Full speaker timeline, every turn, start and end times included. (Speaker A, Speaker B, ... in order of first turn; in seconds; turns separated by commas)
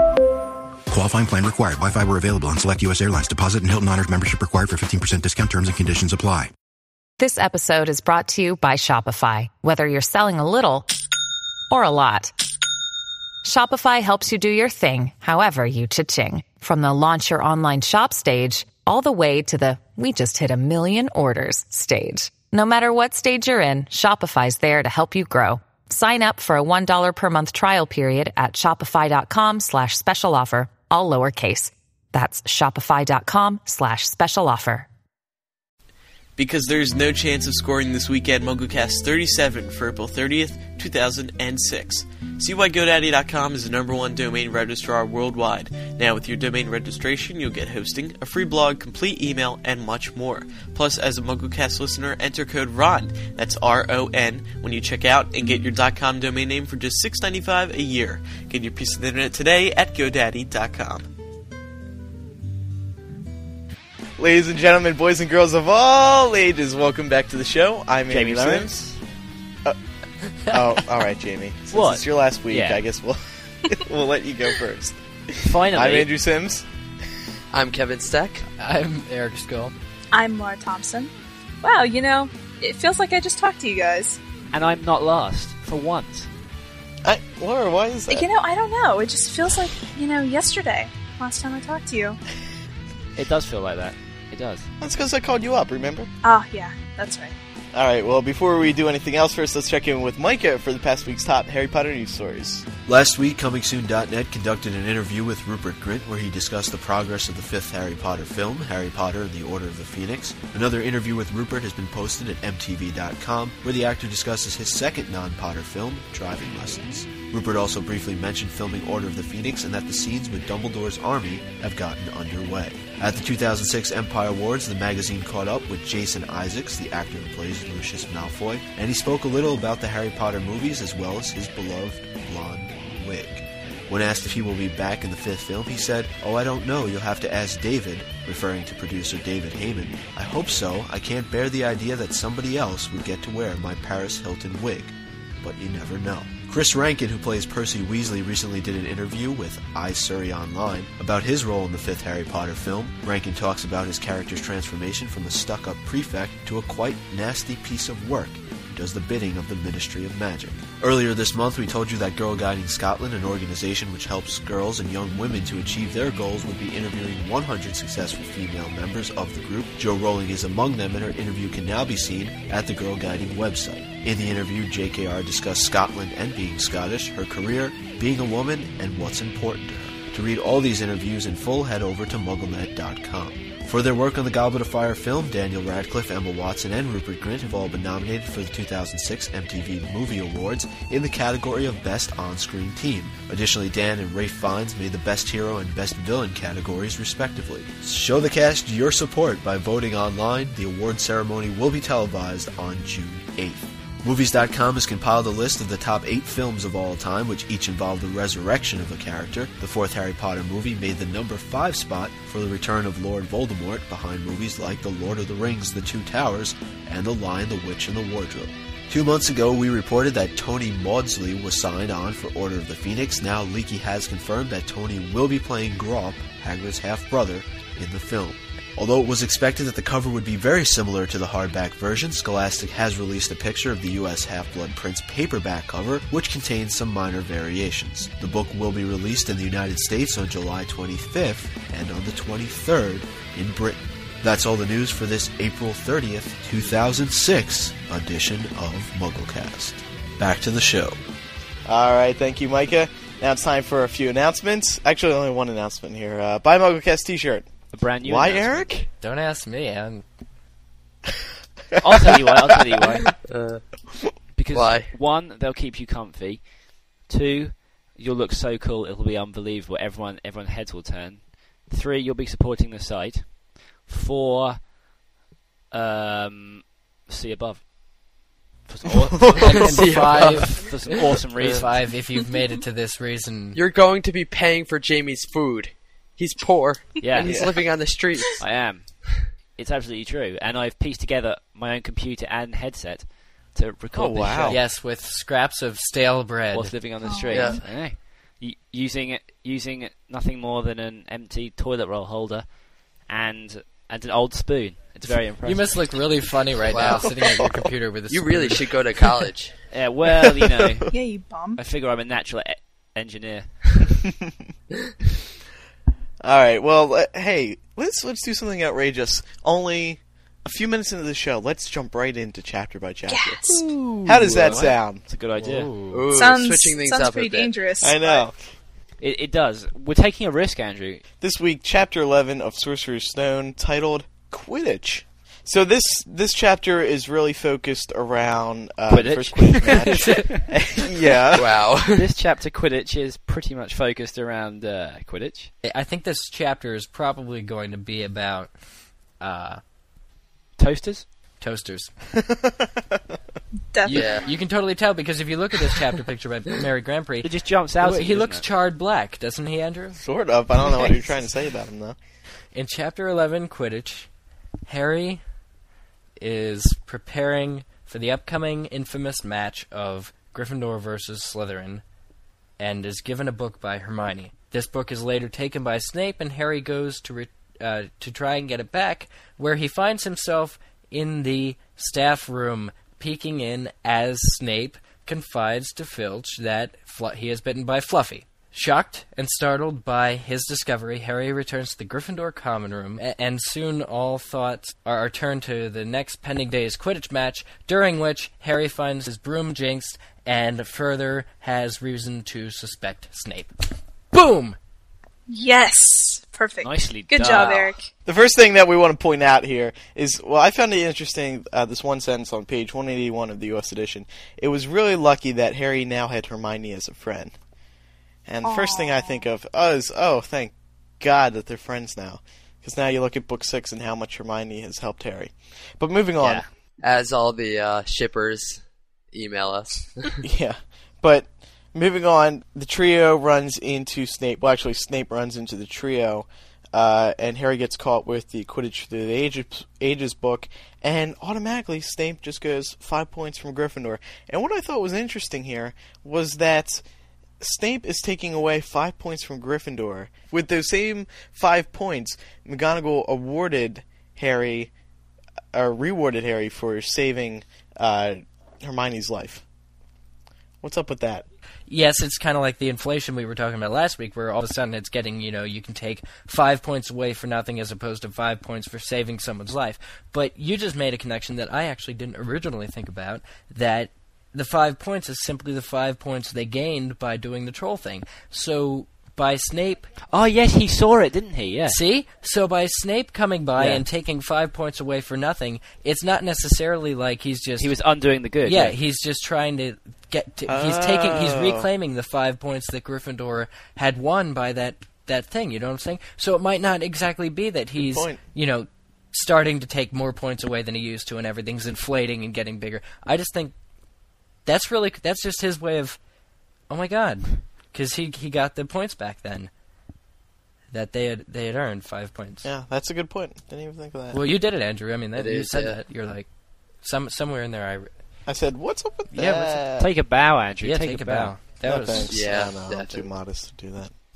Speaker A: 0.9-6.5, Speaker B: 7.2-10.9, Speaker B: 11.7-12.3, Speaker B: 13.4-34.9, Speaker C: 36.4-61.1, Speaker C: 64.2-68.8, Speaker D: 68.1-69.0, Speaker C: 70.5-76.7, Speaker D: 71.7-72.8, Speaker D: 75.4-76.1, Speaker E: 77.5-78.5, Speaker F: 78.6-79.7, Speaker G: 80.1-84.2, Speaker D: 84.5-86.3, Speaker C: 87.0-88.3, Speaker G: 88.1-92.2, Speaker D: 93.2-94.7, Speaker C: 94.8-96.1, Speaker G: 96.2-97.3, Speaker C: 97.7-102.7, Speaker H: 102.8-251.0, Speaker C: 251.6-258.9, Speaker D: 257.7-258.7, Speaker F: 259.0-260.0, Speaker D: 261.8-263.2, Speaker E: 263.2-263.6, Speaker D: 264.3-274.7, Speaker E: 264.5-264.9, Speaker D: 275.7-277.7, Speaker D: 278.6-281.8, Speaker C: 279.0-279.4, Speaker F: 279.4-280.7, Speaker E: 279.5-281.1, Speaker F: 281.4-283.6, Speaker E: 283.5-288.4, Speaker D: 287.0-287.4, Speaker C: 287.2-287.6, Speaker D: 288.4-294.6, Speaker C: 293.9-294.6, Speaker F: 294.5-296.7, Speaker D: 296.5-302.5, Speaker G: 297.0-297.6, Speaker E: 297.3-297.6, Speaker D: 303.0-305.7, Speaker F: 305.4-308.7, Speaker E: 306.7-307.4, Speaker C: 306.8-307.5, Speaker E: 308.1-309.6, Speaker D: 309.7-310.9, Speaker C: 310.5-310.8, Speaker G: 310.9-311.6, Speaker D: 311.5-313.8, Speaker C: 316.2-325.1, Speaker G: 323.1-323.7, Speaker F: 323.5-324.7, Speaker D: 324.3-325.7, Speaker F: 325.4-326.0, Speaker E: 325.9-327.6, Speaker G: 326.1-328.2, Speaker C: 327.8-328.4, Speaker D: 329.0-331.0, Speaker C: 331.2-341.5, Speaker D: 338.9-341.3, Speaker F: 339.9-340.2, Speaker E: 341.3-342.1, Speaker D: 341.9-345.5, Speaker F: 345.6-348.5, Speaker F: 349.2-349.6, Speaker D: 350.6-351.1, Speaker F: 351.4-351.9, Speaker C: 352.1-353.0, Speaker G: 353.7-354.2, Speaker F: 353.9-360.0, Speaker E: 353.9-354.3, Speaker D: 357.2-358.4, Speaker C: 360.0-362.0, Speaker F: 362.5-364.1, Speaker F: 364.6-365.2, Speaker F: 366.2-371.8, Speaker F: 372.6-403.5, Speaker F: 404.1-404.6, Speaker G: 405.3-407.9, Speaker D: 406.6-407.7, Speaker C: 408.1-417.3, Speaker C: 418.2-426.4, Speaker G: 418.4-419.2, Speaker D: 426.2-426.5, Speaker E: 426.8-430.1, Speaker C: 430.2-446.8, Speaker C: 447.4-454.7, Speaker C: 455.5-459.4, Speaker C: 460.6-461.3, Speaker F: 461.7-479.9, Speaker D: 480.1-481.8, Speaker F: 481.7-487.7, Speaker D: 483.6-483.8, Speaker D: 487.6-488.8, Speaker F: 488.4-503.5, Speaker C: 490.5-491.7, Speaker C: 497.8-498.2, Speaker F: 504.4-506.0, Speaker F: 506.7-509.5, Speaker F: 510.7-512.5, Speaker C: 512.4-514.2, Speaker F: 514.1-516.3, Speaker E: 515.1-515.8, Speaker F: 516.8-517.9, Speaker C: 518.2-519.9, Speaker D: 519.1-521.3, Speaker F: 520.6-522.1, Speaker C: 521.6-524.0, Speaker E: 522.1-523.1